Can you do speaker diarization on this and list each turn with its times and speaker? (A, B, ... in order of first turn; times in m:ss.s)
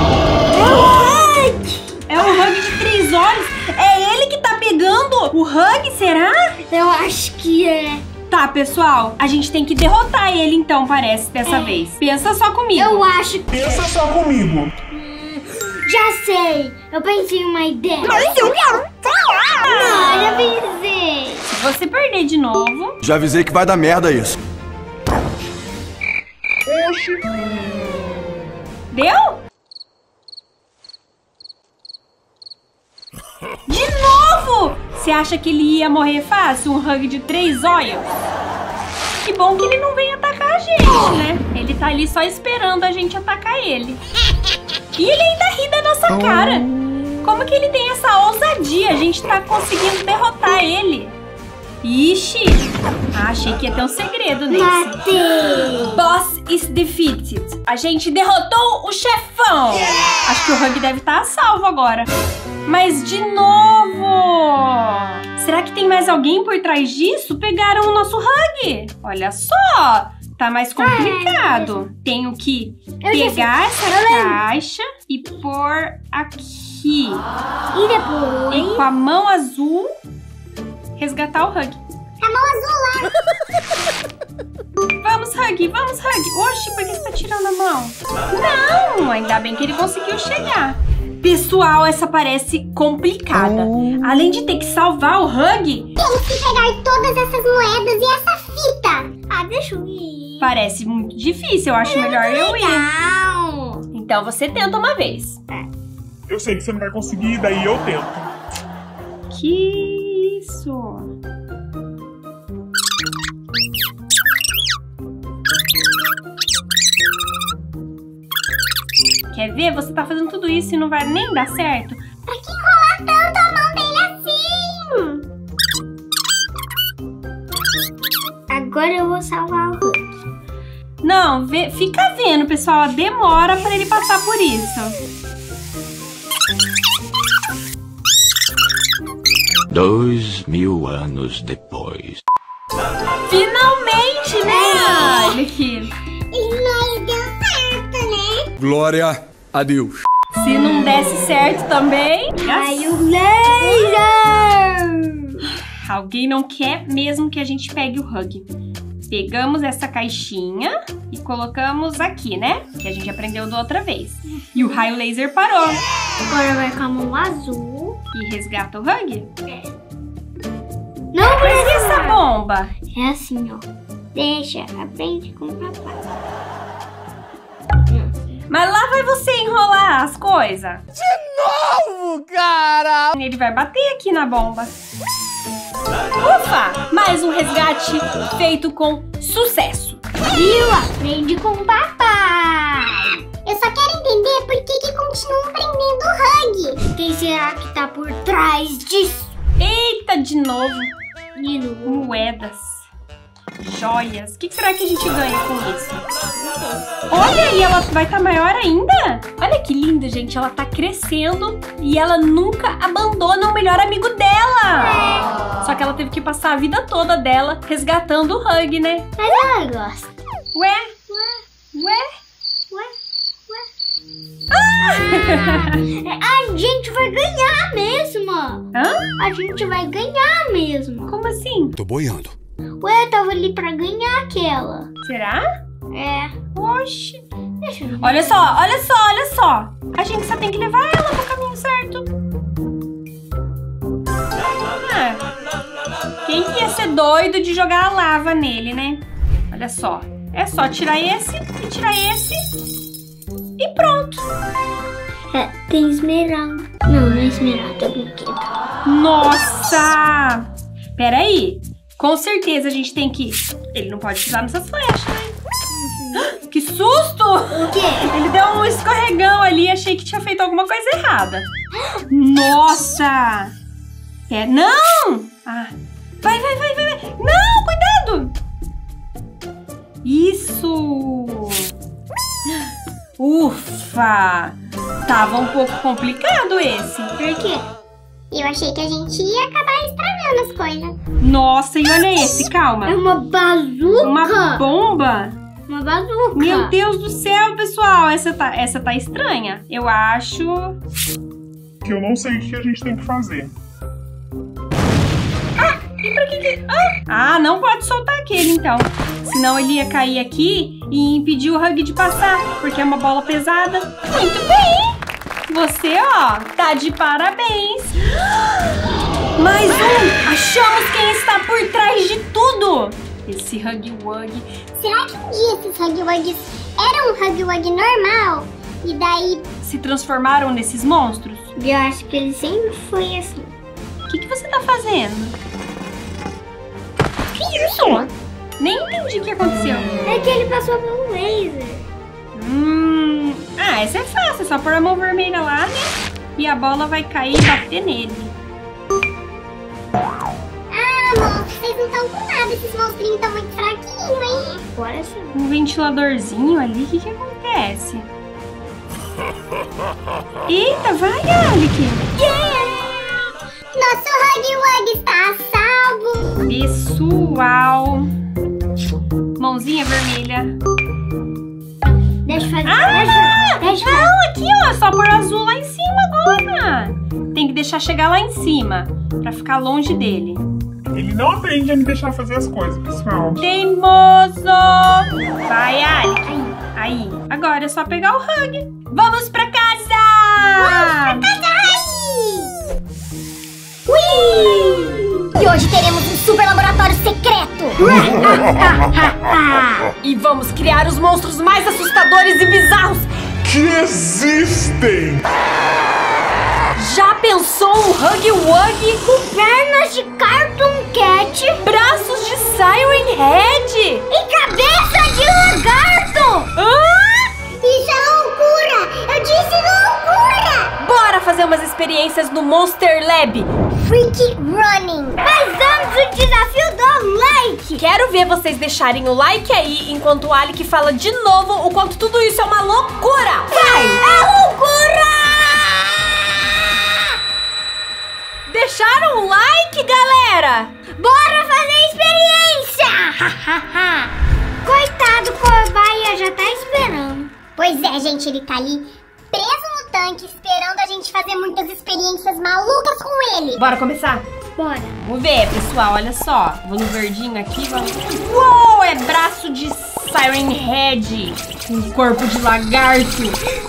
0:00.5-0:02.2 A
0:00.6-0:00.8 B
0:02.1-0:06.6 B
0:06.7-0:08.0 A
0:08.3-0:13.0 B
0:11.4-0:11.8 A
0:12.7-0:13.8 A
0:13.5-0:14.7 C
0:14.9-0:18.6 A
0:19.6-0:21.5 A
0:21.5-0:23.0 B
0:23.0-0:24.3 D
0:26.6-0:28.0 C
0:28.9-0:29.4 B
0:33.7-0:38.1 B
0:39.2-0:44.0 B
0:45.0-0:46.7 B
0:47.2-0:51.1 B
0:51.8-0:55.0 B
0:54.5-0:56.0 A
0:55.9-1:02.1 B
1:02.6-1:17.2 B
1:10.8-1:11.8 A
1:13.0-1:14.4 A
1:17.7-1:18.9 A
1:18.5-1:19.9 B
1:21.0-1:21.8 B
1:22.2-1:23.1 E
1:25.0-1:35.9 B
1:36.0-1:39.2 E
1:39.3-1:40.5 A
1:40.4-1:42.9 B
1:41.8-1:43.8 A
1:43.9-1:45.4 B
1:46.3-1:48.3 C
1:49.3-1:51.1 B
1:59.3-2:02.0 B
2:02.3-2:05.2 E
2:08.5-2:10.1 A
2:11.0-2:15.0 B
2:19.7-2:22.2 F
2:23.3-2:25.9 B
2:24.5-2:25.4 A
2:26.3-2:28.5 E
2:28.6-2:30.0 D
2:30.4-2:32.9 B
2:32.4-2:35.4 A
2:35.8-2:38.5 B
2:39.1-2:45.8 B
2:46.2-2:48.0 A
2:48.1-2:49.3 B
2:51.1-2:52.2 A
2:51.2-2:52.7 B
2:52.9-2:56.0 A
2:57.9-2:58.1 A
2:58.5-3:00.8 B
3:03.1-3:04.7 B
3:06.2-3:10.0 B
3:10.3-3:13.2 A
3:13.4-3:16.8 E
3:16.9-3:19.3 A
3:19.6-3:20.9 B
3:21.3-3:22.1 A
3:21.8-3:22.8 B
3:23.6-3:26.0 B
3:26.4-3:26.8 A
3:27.1-3:35.0 B
3:34.8-3:35.4 A
3:35.6-3:39.1 B
3:39.2-3:40.1 A
3:40.5-3:40.9 B
3:41.1-3:41.4 A
3:41.7-3:42.1 B
3:44.5-3:45.9 B
3:44.8-3:51.1 A
3:48.7-3:49.1 B
3:51.0-3:51.7 B
3:51.8-3:52.3 D
3:52.8-3:54.9 A
3:55.0-3:55.5 B
3:55.9-3:56.3 A
3:56.5-3:57.2 B
3:57.6-3:58.3 A
3:58.0-4:02.1 B
4:04.8-4:05.2 B
4:06.2-4:12.5 B
4:13.6-4:14.3 B
4:15.3-4:18.5 A
4:18.8-4:25.3 B
4:25.7-4:26.3 A
4:26.2-4:31.5 B
4:27.5-4:28.1 A
4:31.7-4:32.0 A
4:32.1-4:33.5 B
4:34.3-4:38.3 B
4:40.0-4:41.7 B
4:43.2-4:44.6 B
4:45.1-4:47.2 B
4:47.2-4:47.6 A
4:48.3-4:51.0 E
4:51.2-4:53.0 B
4:52.8-4:54.6 A
4:54.0-4:55.4 B
4:55.7-4:56.7 A
4:56.3-5:00.8 B
5:01.8-5:03.5 C
5:05.6-5:18.0 B
5:19.4-5:24.5 B
5:24.8-5:29.4 E
5:29.6-5:31.5 B
5:31.6-5:33.5 A
5:34.1-5:35.4 B
5:38.6-5:39.9 B
5:40.0-5:41.8 A
5:42.3-5:48.3 B
5:50.7-5:54.6 E
5:54.6-5:55.3 A
5:55.3-5:58.1 B
6:00.5-6:02.1 B
6:02.2-6:03.1 A
6:03.7-6:06.3 E
6:06.4-6:08.1 B
6:09.4-6:10.6 B
6:12.1-6:14.2 A
6:12.6-6:20.4 B
6:20.9-6:23.4 C
6:23.4-6:31.3 B
6:30.7-6:32.5 E
6:33.9-6:37.8 E
6:34.1-6:35.1 A
6:37.8-6:38.4 C
6:37.9-6:39.9 A
6:40.0-6:43.1 B
6:43.4-6:45.2 C
6:46.8-6:49.2 B
6:49.2-6:51.6 A
6:51.6-6:54.0 B
6:54.1-6:56.5 A
6:56.6-6:57.3 B
6:57.6-7:00.7 E
7:00.8-7:03.5 B
7:03.8-7:05.2 E
7:05.2-7:07.8 A
7:07.8-7:14.0 B
7:13.5-7:17.0 A
7:18.5-7:20.7 B
7:20.9-7:24.1 A
7:24.6-7:27.3 A
7:27.6-7:33.6 E
7:33.6-7:34.2 B
7:34.6-7:35.0 A
7:35.0-7:43.4 B